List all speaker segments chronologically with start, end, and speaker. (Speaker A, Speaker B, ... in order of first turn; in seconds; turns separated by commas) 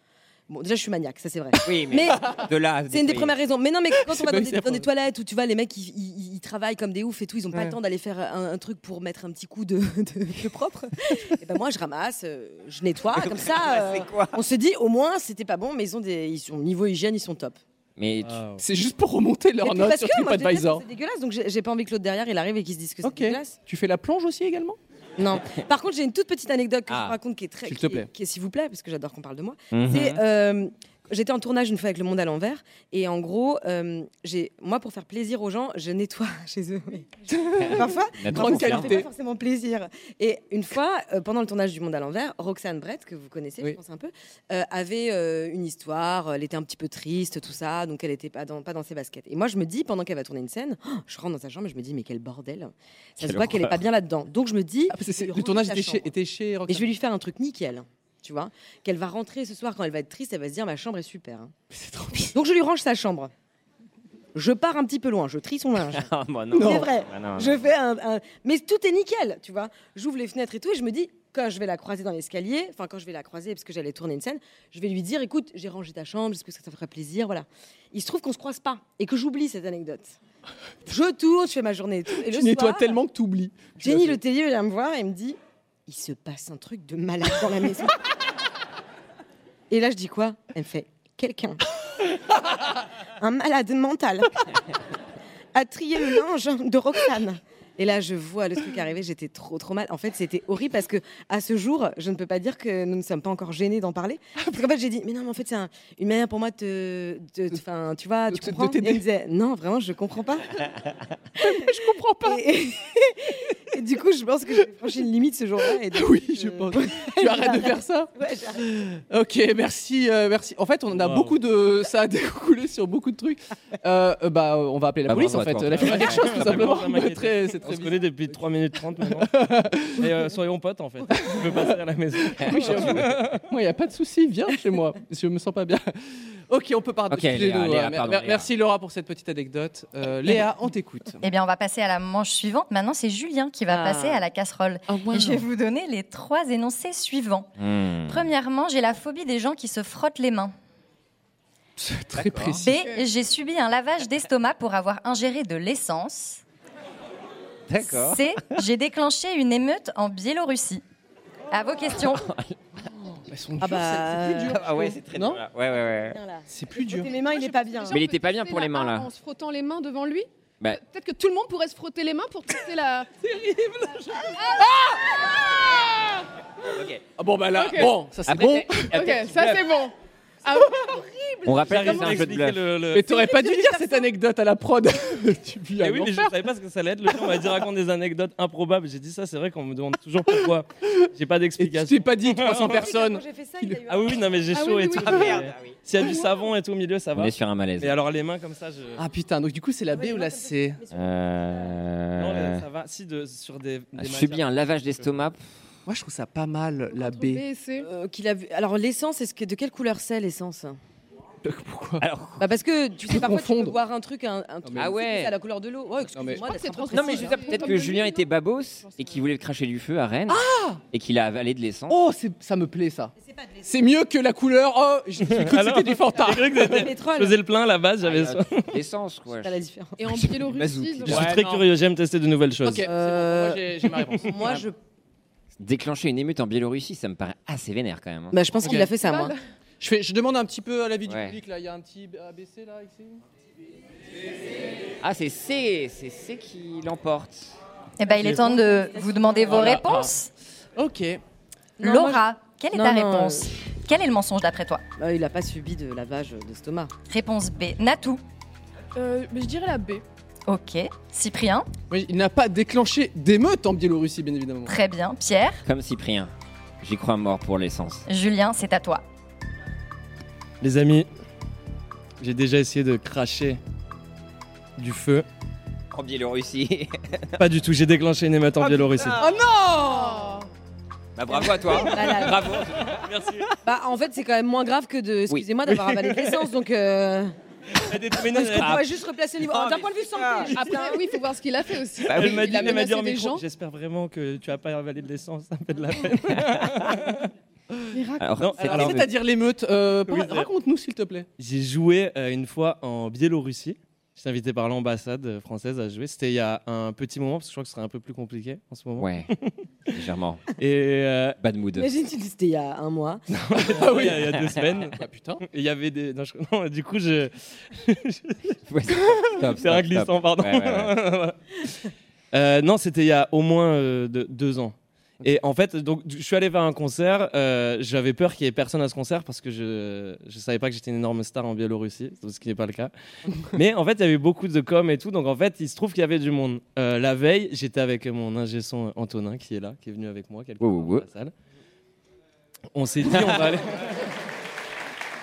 Speaker A: 0.5-17.6, Speaker B: 1.6-3.4, Speaker C: 4.0-4.9, Speaker B: 13.2-14.4, Speaker B: 18.0-18.4, Speaker D: 18.2-18.6, Speaker C: 18.6-20.9, Speaker A: 19.6-23.6, Speaker C: 23.0-24.8, Speaker A: 25.2-56.1, Speaker B: 26.9-27.2, Speaker C: 27.6-28.1, Speaker B: 29.7-30.2, Speaker C: 37.3-39.1, Speaker B: 37.6-39.0, Speaker B: 53.2-53.9, Speaker C: 54.9-56.9, Speaker A: 56.7-61.5, Speaker C: 61.7-62.4, Speaker A: 62.3-63.3, Speaker A: 64.3-80.2, Speaker B: 65.9-67.7, Speaker C: 66.5-66.9, Speaker A: 80.9-83.0, Speaker C: 82.2-84.2, Speaker A: 83.8-88.0, Speaker A: 89.7-91.6, Speaker A: 93.2-94.6, Speaker A: 95.5-110.7, Speaker C: 108.3-109.0, Speaker A: 111.4-118.6, Speaker C: 111.4-112.4, Speaker C: 115.9-128.0, Speaker D: 120.9-121.4, Speaker B: 125.1-126.8, Speaker D: 125.7-129.3, Speaker C: 129.1-130.3, Speaker D: 130.0-133.4, Speaker C: 131.1-135.9, Speaker B: 132.4-132.9, Speaker C: 136.5-141.2, Speaker B: 137.1-138.5, Speaker E: 141.2-147.5, Speaker A: 143.7-144.2, Speaker B: 147.6-148.2, Speaker E: 148.1-150.5, Speaker C: 151.8-152.7, Speaker B: 152.2-152.6, Speaker E: 152.6-156.4, Speaker F: 152.7-153.0, Speaker B: 157.7-158.4, Speaker E: 157.8-160.8, Speaker E: 161.5-162.3, Speaker B: 162.1-162.6, Speaker C: 163.3-165.4, Speaker A: 163.6-164.9, Speaker B: 164.5-166.2, Speaker A: 166.2-168.0, Speaker C: 166.5-167.1, Speaker F: 167.2-173.2, Speaker B: 167.9-169.1, Speaker C: 173.4-176.2, Speaker B: 176.7-177.1, Speaker C: 177.2-179.6, Speaker F: 177.5-178.0, Speaker B: 178.3-179.6, Speaker F: 178.8-182.2, Speaker B: 181.4-182.7, Speaker D: 181.7-183.1, Speaker C: 182.9-186.3, Speaker A: 183.0-184.1, Speaker D: 185.8-192.9, Speaker C: 191.6-193.8, Speaker A: 192.5-194.4, Speaker D: 193.9-199.0, Speaker F: 194.5-195.5, Speaker B: 195.0-195.8, Speaker B: 197.2-198.0, Speaker C: 199.0-200.8, Speaker A: 199.9-201.8, Speaker B: 200.9-202.7, Speaker D: 202.2-204.4, Speaker B: 203.9-205.4, Speaker C: 205.9-207.4, Speaker F: 206.9-207.9, Speaker A: 207.8-210.8, Speaker C: 211.4-212.0, Speaker B: 212.0-212.5, Speaker A: 212.4-217.9, Speaker C: 213.0-213.8, Speaker C: 214.7-214.9, Speaker B: 214.8-215.4, Speaker C: 216.2-216.4, Speaker F: 216.4-218.3, Speaker B: 216.9-222.0, Speaker F: 218.8-219.2, Speaker C: 220.3-220.8, Speaker C: 221.9-223.1, Speaker A: 223.3-223.6, Speaker C: 223.6-226.9, Speaker D: 225.2-228.7, Speaker A: 226.6-227.4, Speaker B: 228.0-231.4, Speaker A: 229.3-230.0, Speaker F: 230.0-231.3, Speaker D: 231.1-232.9, Speaker C: 231.1-231.7, Speaker C: 232.6-234.7, Speaker A: 232.8-234.8, Speaker B: 235.6-238.5, Speaker A: 238.3-239.3, Speaker C: 238.6-238.9, Speaker F: 238.9-239.4, Speaker C: 239.8-243.2, Speaker B: 241.1-241.4, Speaker B: 245.0-247.6, Speaker E: 248.0-250.3, Speaker C: 248.2-248.7, Speaker A: 248.9-249.7, Speaker C: 249.4-250.1, Speaker C: 250.8-251.2, Speaker A: 251.8-253.5, Speaker E: 251.8-254.8, Speaker A: 255.0-256.9, Speaker E: 257.1-258.2, Speaker F: 258.9-260.0, Speaker E: 260.5-261.7, Speaker C: 261.9-264.8, Speaker E: 264.7-265.6, Speaker B: 265.6-268.1, Speaker E: 268.1-269.0, Speaker D: 270.6-271.1, Speaker D: 272.2-273.6, Speaker D: 274.8-275.3, Speaker B: 275.9-277.4, Speaker D: 277.4-279.2, Speaker B: 278.6-279.3, Speaker C: 279.2-280.1, Speaker F: 279.9-280.4, Speaker A: 279.9-280.2, Speaker B: 281.1-283.0, Speaker A: 281.3-282.6, Speaker D: 282.0-282.3, Speaker D: 282.8-283.5, Speaker A: 283.6-287.3, Speaker D: 287.8-288.9, Speaker A: 288.2-291.1, Speaker B: 288.4-288.9, Speaker B: 289.4-290.5, Speaker F: 290.5-293.4, Speaker B: 292.1-292.8, Speaker D: 292.1-297.3, Speaker B: 296.3-297.0, Speaker F: 297.9-298.7, Speaker B: 298.2-299.1, Speaker D: 298.4-299.0, Speaker C: 298.6-301.3, Speaker D: 300.1-300.5, Speaker D: 301.4-310.0, Speaker B: 309.0-309.3, Speaker B: 309.9-310.4, Speaker D: 310.6-311.4, Speaker B: 311.4-311.9, Speaker A: 311.8-313.2, Speaker D: 313.3-318.5, Speaker C: 313.6-315.4, Speaker B: 318.7-320.9, Speaker D: 319.3-321.7, Speaker D: 322.3-332.9, Speaker D: 333.4-341.3, Speaker B: 340.6-341.1, Speaker D: 342.7-344.1